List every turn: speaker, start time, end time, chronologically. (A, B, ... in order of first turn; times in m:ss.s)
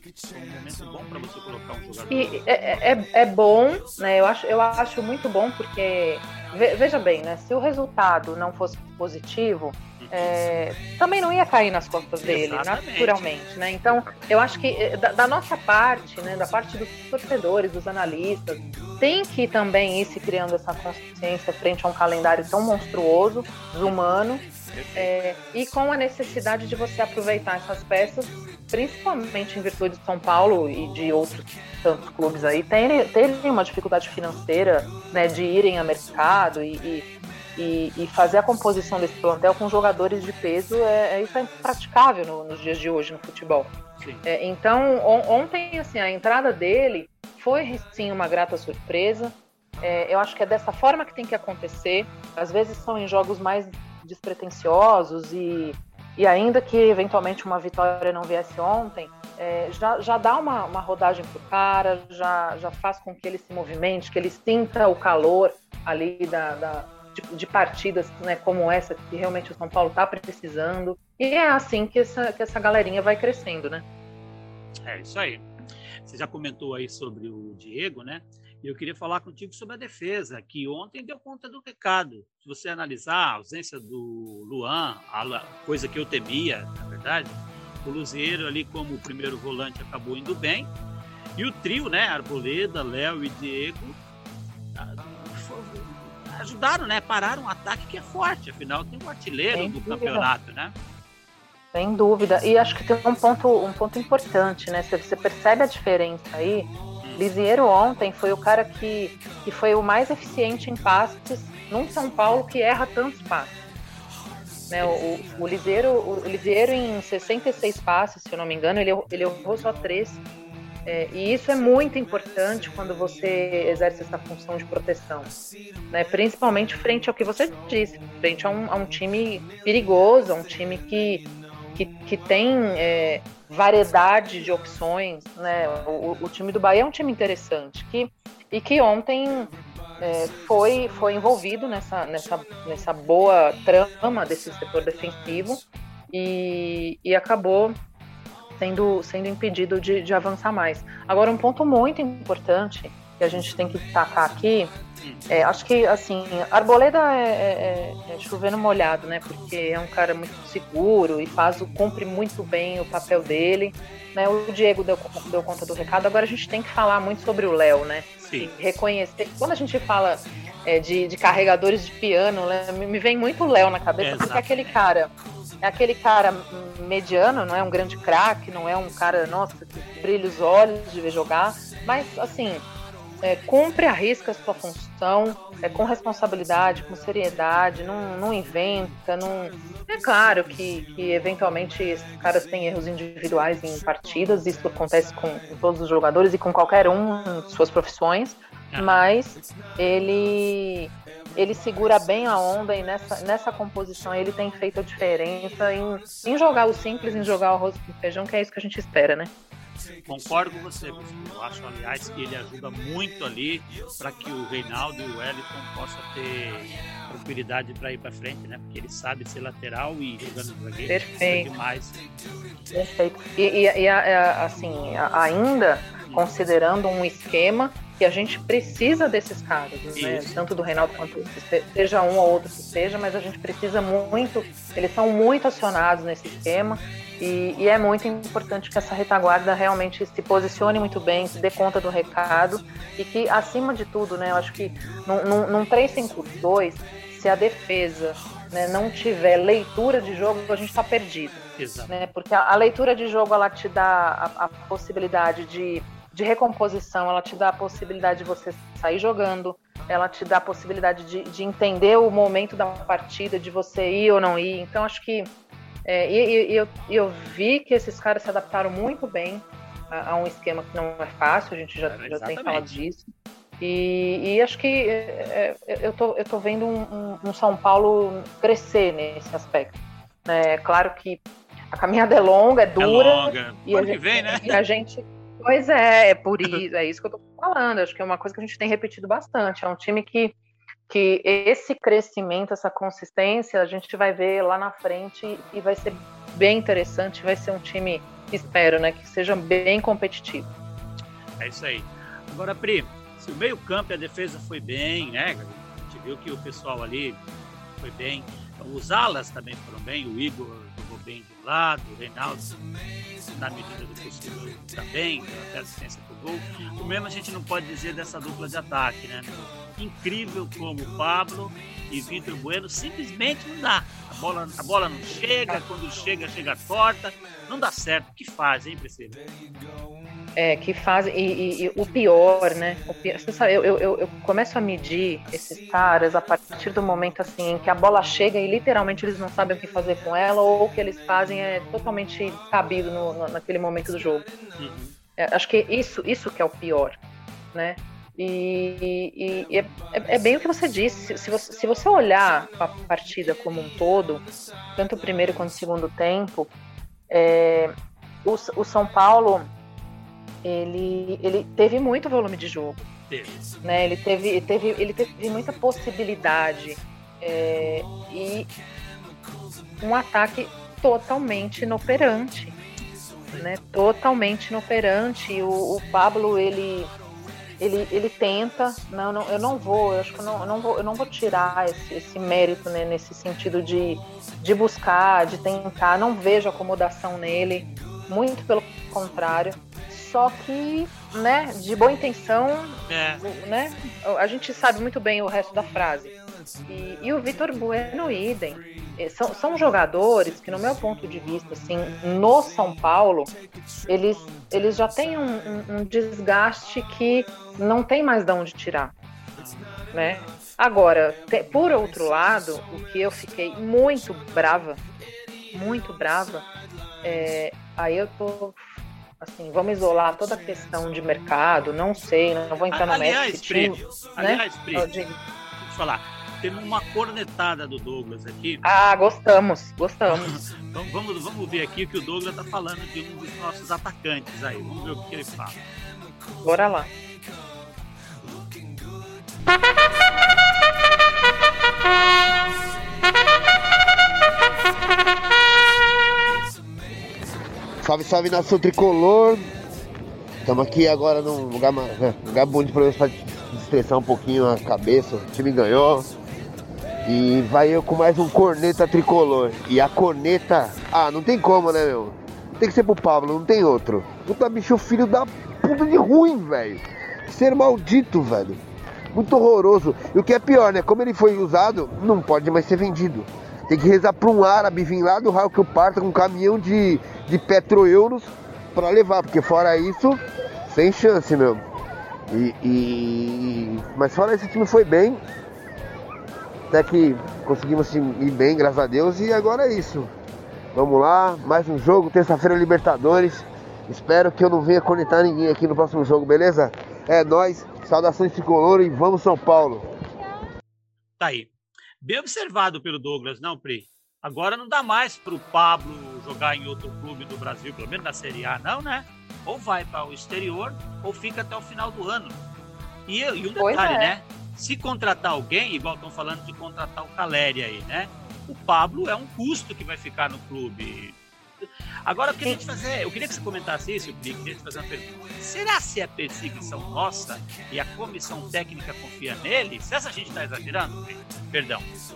0:00.3-0:02.8 A
0:02.1-0:43.7 B
0:10.0-0:10.3 A
0:12.2-0:13.2 A
0:13.9-0:14.3 A
0:24.7-0:25.1 A
0:44.0-0:44.2 A
0:44.2-1:13.8 B
1:14.8-1:15.4 A
1:16.0-1:30.7 A
1:31.4-1:34.0 A
1:34.7-1:40.7 A
1:39.5-1:40.3 B
1:41.7-1:53.5 B
1:54.7-2:00.2 B
1:54.8-1:55.5 A
2:00.8-2:05.3 B
2:05.9-2:27.8 B
2:28.6-2:34.7 B
2:35.3-2:55.1 B
2:48.2-2:48.5 A
2:54.0-2:54.8 A
2:55.6-3:02.6 B
3:03.2-3:29.3 B
3:18.7-3:19.0 A
3:30.1-3:42.0 A
3:40.9-3:41.5 B
3:42.7-4:25.3 B
3:50.0-3:51.1 A
4:11.6-4:11.9 A
4:25.8-4:33.1 B
4:31.8-4:32.8 A
4:33.6-4:39.7 B
4:40.2-4:50.3 B
4:42.8-4:44.6 A
4:50.9-5:00.5 B
5:01.4-5:07.2 A
5:07.8-5:12.5 A
5:13.3-5:29.3 A
5:25.1-5:25.6 B
5:30.4-5:44.3 B
5:44.6-5:44.9 A
5:45.2-5:47.0 B
5:47.5-5:54.2 B
5:54.8-5:56.5 B
5:57.1-5:57.7 B
5:58.2-5:59.5 B
6:00.4-6:02.8 B
6:03.1-6:03.5 A
6:03.6-6:08.5 B
6:09.8-6:12.6 B
6:13.4-6:16.9 B
6:17.6-6:36.1 B
6:32.9-6:33.2 A
6:36.7-6:43.3 B
6:43.9-6:48.9 B
6:49.3-6:49.8 A
6:49.9-6:54.8 B
6:55.5-6:56.4 B
6:57.0-6:58.6 B
6:59.2-7:05.2 B
7:02.7-7:04.9 A
7:05.6-7:08.6 A
7:08.6-7:10.4 B
7:10.1-7:15.6 A
7:16.4-7:16.9 B
7:27.8-7:29.5 C
7:30.4-7:36.1 C
7:37.0-7:48.6 C
7:49.1-8:01.6 C
8:02.3-8:05.2 C
8:06.7-8:10.1 C
8:10.7-8:19.9 C
8:21.2-8:21.5 A
8:22.0-8:32.4 A
8:33.1-8:51.9 A
8:33.6-8:34.1 B